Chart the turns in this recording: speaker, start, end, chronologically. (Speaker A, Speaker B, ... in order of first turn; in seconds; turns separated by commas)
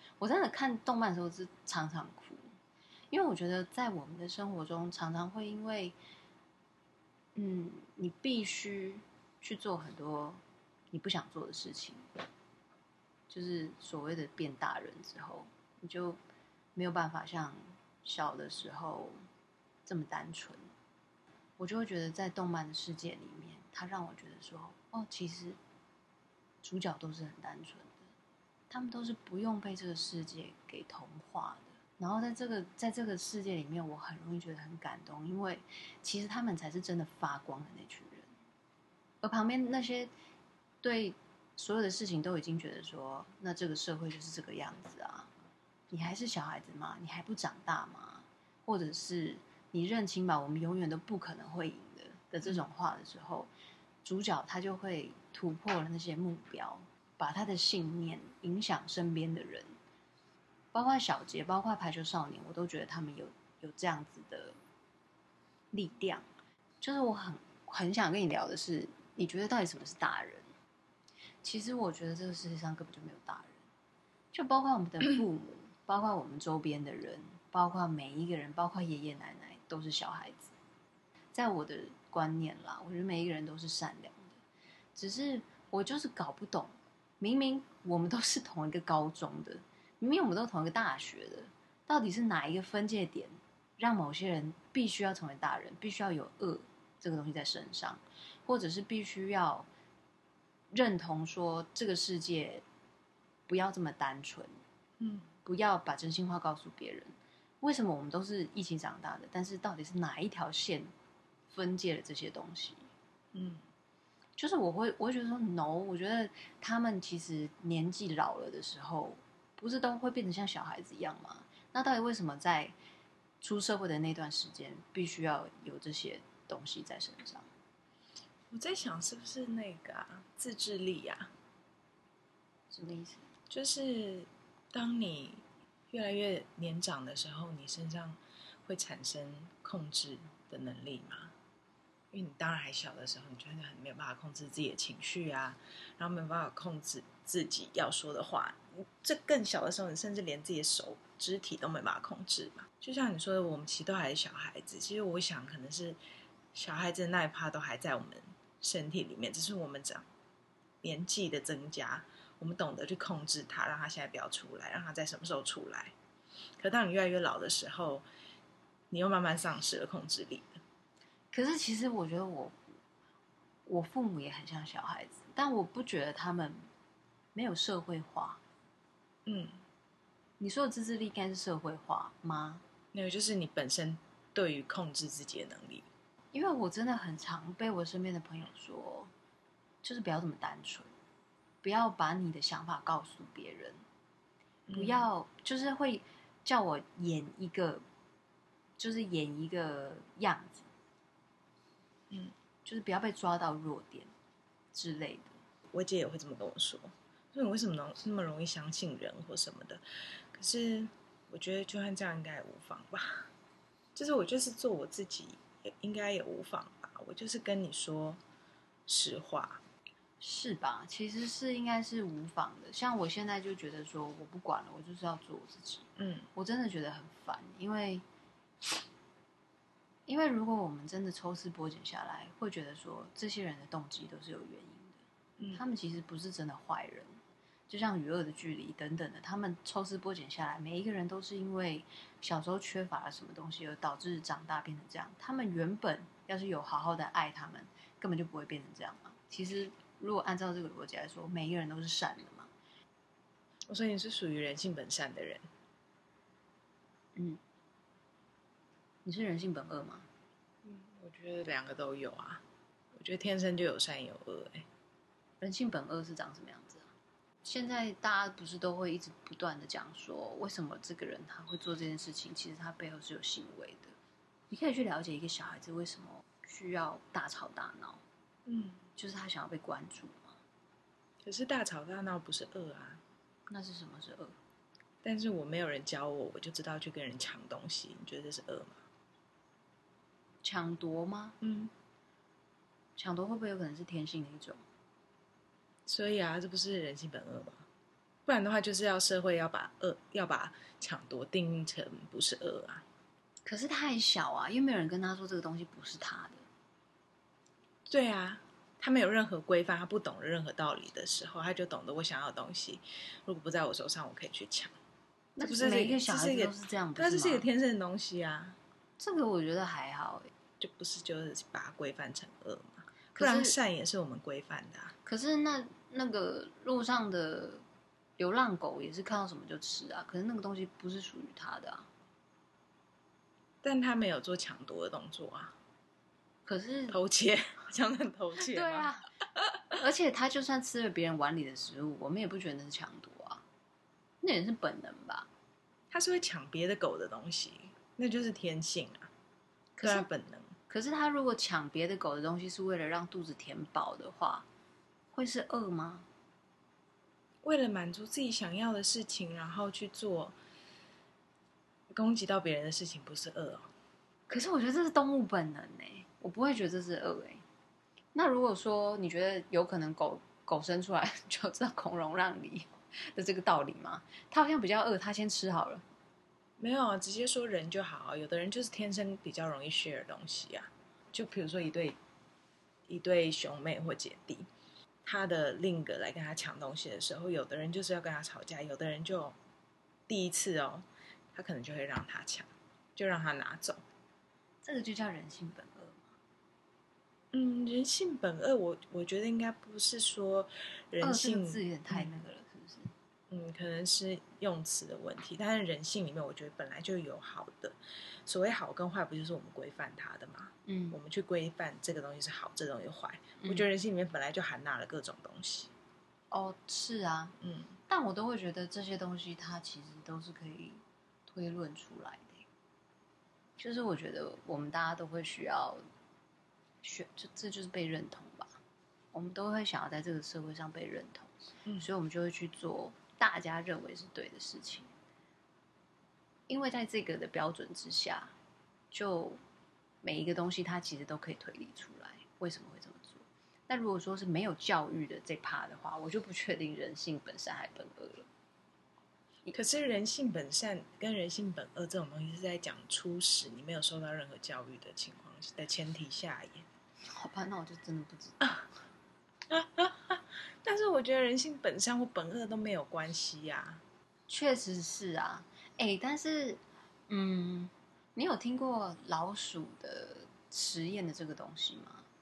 Speaker A: 0.2-2.5, Speaker A: 3.1-6.0, Speaker A: 7.3-12.1, Speaker A: 13.3-16.2, Speaker A: 16.7-19.1, Speaker A: 19.9-20.6, Speaker A: 21.6-25.6, Speaker A: 26.6-28.0, Speaker A: 28.7-38.3, Speaker A: 39.2-40.1, Speaker A: 40.8-45.3, Speaker A: 45.9-53.5, Speaker A: 54.0-59.7, Speaker A: 60.7-64.6, Speaker A: 65.7-66.3, Speaker A: 66.8-70.5, Speaker A: 71.4-73.7, Speaker A: 74.3-80.5, Speaker A: 81.3-84.4, Speaker A: 84.9-99.7, Speaker A: 100.7-102.6, Speaker A: 103.5-104.5, Speaker B: 105.0-105.3, Speaker A: 105.4-110.9, Speaker A: 111.5-112.9, Speaker B: 113.3-113.6, Speaker A: 114.4-122.7, Speaker A: 123.4-127.5, Speaker B: 128.5-131.3, Speaker A: 132.7-133.3, Speaker B: 133.5-141.3, Speaker B: 142.1-156.0, Speaker B: 156.5-160.1, Speaker B: 160.8-165.9, Speaker B: 166.6-168.0, Speaker B: 168.9-170.5, Speaker A: 171.3-172.8, Speaker A: 173.7-176.7, Speaker A: 177.3-178.4, Speaker B: 179.2-179.6, Speaker A: 180.4-182.6, Speaker B: 182.9-185.8, Speaker A: 186.3-189.1, Speaker A: 189.8-190.9, Speaker A: 191.6-193.8, Speaker B: 194.7-195.1, Speaker A: 194.7-197.8, Speaker A: 198.8-200.7, Speaker A: 202.6-204.1, Speaker A: 204.7-205.4, Speaker B: 205.7-213.3, Speaker B: 213.9-218.2, Speaker B: 218.9-219.6, Speaker A: 220.2-228.0, Speaker B: 226.0-226.3, Speaker A: 230.1-235.0, Speaker B: 235.4-235.6, Speaker A: 235.5-237.2, Speaker A: 237.7-252.5, Speaker B: 253.7-255.4, Speaker A: 257.1-257.4, Speaker A: 259.0-260.1, Speaker B: 260.6-262.4, Speaker B: 262.9-264.7, Speaker A: 265.4-266.9, Speaker A: 267.4-273.9, Speaker A: 274.5-278.0, Speaker B: 278.4-278.8, Speaker A: 279.0-280.4, Speaker B: 281.2-283.0, Speaker A: 283.5-284.4, Speaker B: 285.0-288.8, Speaker A: 290.4-291.4, Speaker B: 291.4-291.7, Speaker A: 293.0-294.6, Speaker B: 295.9-297.6, Speaker B: 298.2-302.8, Speaker A: 303.4-306.4, Speaker B: 307.9-314.7, Speaker A: 315.4-317.5, Speaker B: 315.4-318.6, Speaker A: 319.0-320.3, Speaker B: 320.6-324.9, Speaker A: 323.1-323.5, Speaker A: 325.0-327.6, Speaker A: 328.2-331.9, Speaker B: 333.6-335.6, Speaker A: 336.4-337.0, Speaker B: 336.9-338.9, Speaker A: 338.4-339.1, Speaker A: 339.7-343.4, Speaker A: 344.2-345.3, Speaker B: 345.9-349.1, Speaker A: 349.8-350.1, Speaker B: 349.8-350.5, Speaker A: 350.7-354.4, Speaker A: 355.1-356.1, Speaker B: 357.4-360.3, Speaker B: 361.9-363.7, Speaker A: 364.3-367.4, Speaker A: 368.1-375.8, Speaker B: 376.6-382.0, Speaker B: 382.9-384.5, Speaker B: 385.0-389.4, Speaker B: 390.1-393.8, Speaker A: 394.6-396.1, Speaker B: 397.3-402.2, Speaker A: 401.0-402.9, Speaker B: 403.3-415.7, Speaker A: 410.6-411.0, Speaker A: 413.4-413.7, Speaker A: 416.3-417.3, Speaker B: 417.4-417.7, Speaker A: 417.9-422.4, Speaker A: 423.6-425.8, Speaker A: 426.8-428.6, Speaker A: 429.1-434.9, Speaker A: 436.5-438.3, Speaker A: 438.9-439.4, Speaker A: 440.0-448.3, Speaker B: 449.5-456.6, Speaker A: 457.1-458.7, Speaker B: 459.5-463.8, Speaker A: 464.3-472.1